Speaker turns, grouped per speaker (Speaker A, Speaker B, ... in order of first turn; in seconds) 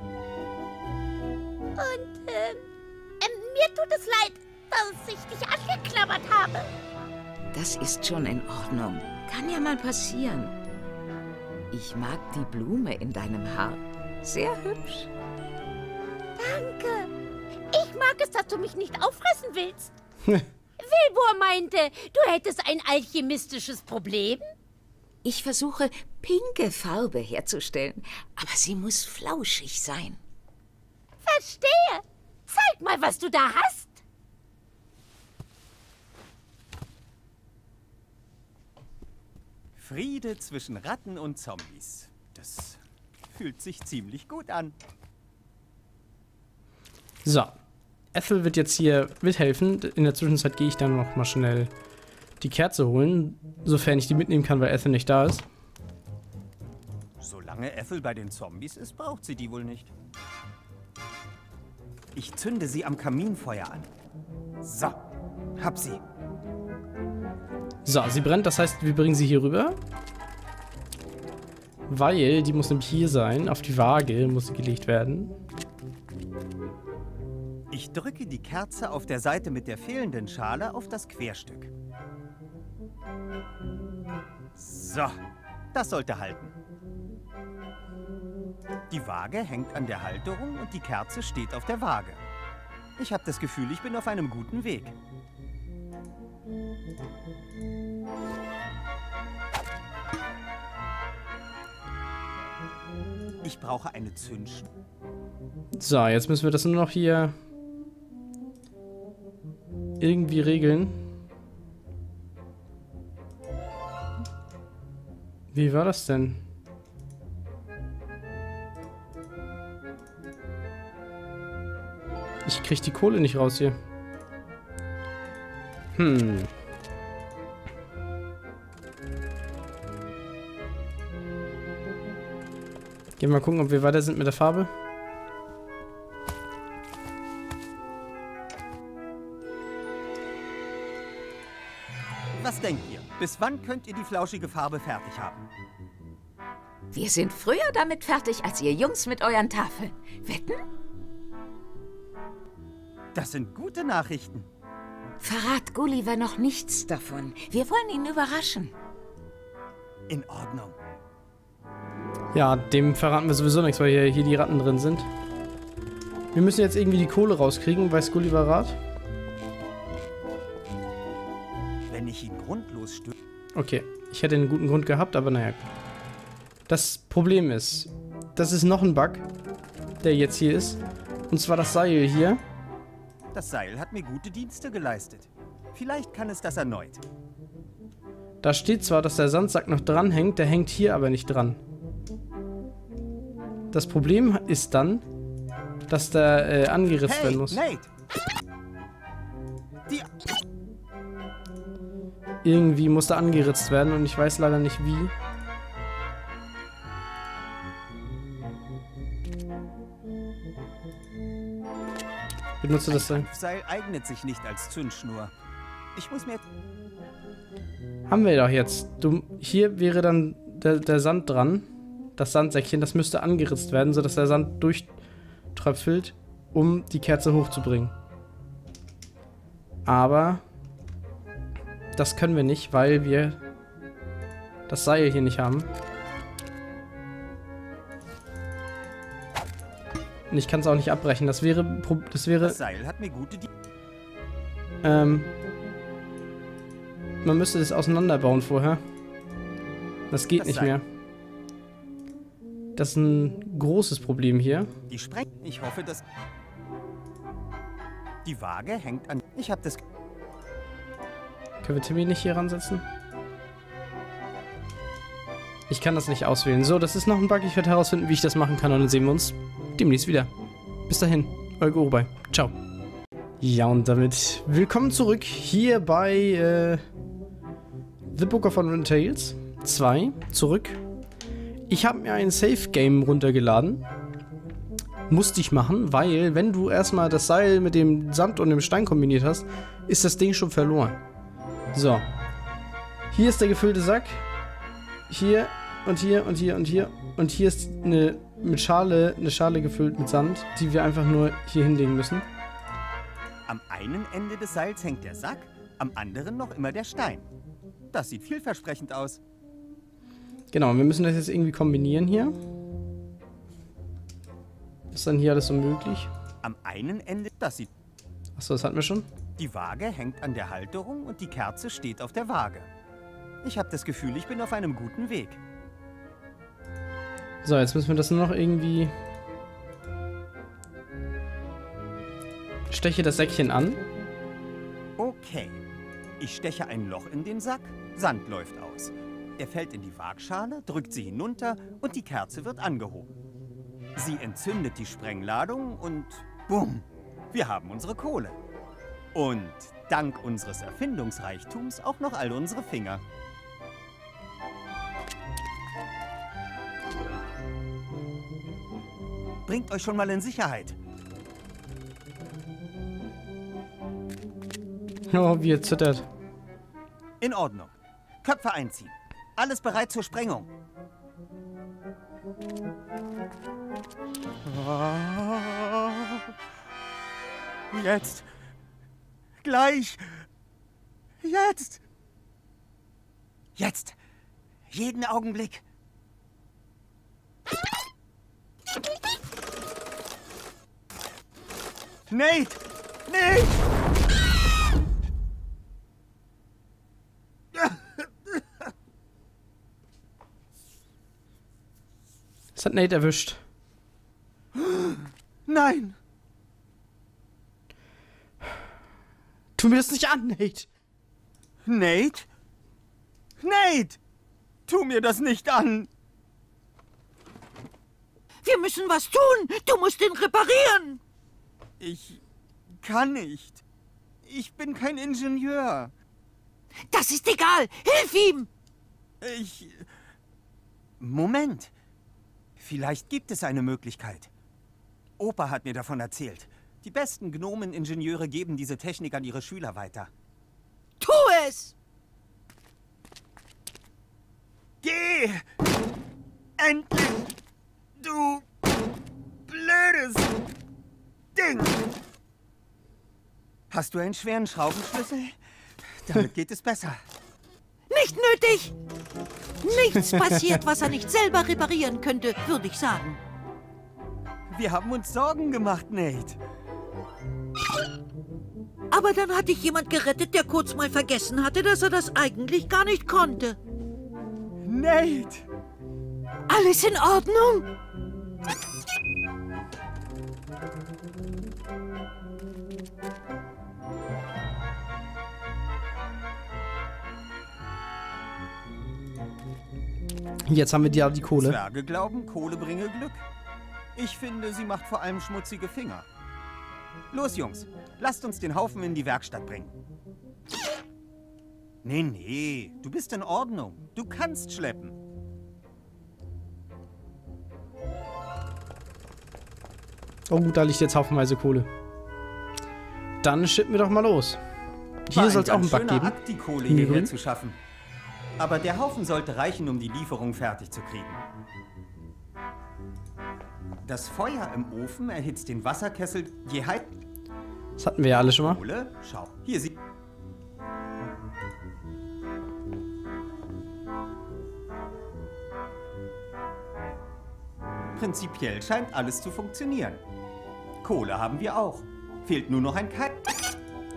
Speaker A: 1.8-2.6, 3.2-6.7, 16.4-17.1, 17.7-19.9, 20.8-24.5, 31.3-34.0
Speaker B: 7.5-10.6, 11.7-15.1, 25.2-30.2, 146.9-150.6, 155.2-158.7
Speaker C: 39.8-44.8, 57.2-59.9, 62.1-63.9, 64.6-65.0, 65.6-66.0, 77.7-81.7, 84.6-85.2, 85.7-86.5, 88.9-92.2, 93.0-95.0, 103.4-104.7, 142.4-145.5, 153.1-154.5, 160.1-160.8, 171.9-173.1, 183.3-187.0, 197.1-197.9, 199.9-200.1, 212.8-215.3, 215.9-216.5, 242.4-243.5, 250.4-250.7, 254.9-256.0, 258.2-259.8, 303.5-307.3, 307.9-309.2, 316.4-317.7, 319.4-322.7, 323.4-325.4, 335.0-335.6, 336.2-343.2, 343.9-348.4, 349.1-353.0, 359.5-360.8, 367.2-370.5, 374.4-376.3, 377.7-378.3, 379.4-380.3, 381.2-381.8, 383.6-384.0, 384.7-385.6, 392.1-393.6, 397.5-398.4, 404.5-406.0, 411.6-412.3, 413.4-414.0, 414.7-415.9, 421.8-422.2, 422.8-423.6, 424.2-425.9, 429.2-429.9, 431.0-431.7, 432.6-434.3, 435.2-440.1, 444.8-445.5, 446.6-447.3, 448.0-448.5, 449.5-450.3, 451.4-451.9, 453.7-457.0, 464.5-466.4, 474.6-475.5, 491.3-493.3, 493.9-496.1, 497.1-499.8, 501.8-505.0, 515.1-517.6, 518.4-521.2, 523.8-527.0, 528.4-529.8, 538.0-540.0, 540.8-543.2
Speaker D: 47.2-47.6, 48.1-51.7, 52.4-55.5, 67.8-69.8, 71.9-75.3, 105.8-107.3, 110.0-111.0, 115.5-116.4, 122.5-123.8, 125.9-126.5, 133.2-134.7, 162.3-165.1, 166.3-168.8, 173.6-175.6, 176.7-179.3, 180.0-182.4, 188.4-191.6, 193.7-195.0, 195.9-197.6, 202.4-205.1, 212.6-213.3, 218.1-224.9, 225.5-227.9, 229.9-230.4, 231.9-233.4, 234.7-235.7, 240.3-242.6, 244.8-245.3, 247.2-248.8, 250.1-250.8, 252.8-254.7, 261.6-262.9, 265.7-270.3, 270.9-272.6, 273.4-276.8, 278.1-280.8, 281.7-283.9, 285.1-291.0, 291.7-292.1, 293.1-294.2, 295.1-302.3, 310.5-312.4, 314.9-316.1, 318.4-319.1, 327.4-328.9, 332.7-333.8, 365.1-366.1, 402.6-403.4, 409.6-410.7, 460.1-460.5, 490.5-491.6, 510.3-511.7, 513.2-514.4, 515.1-516.2, 516.7-517.1, 527.8-528.6
Speaker E: 418.4-421.0, 426.9-428.5, 441.0-441.8, 457.9-458.8, 459.6-463.1, 468.9-473.6, 476.5-477.7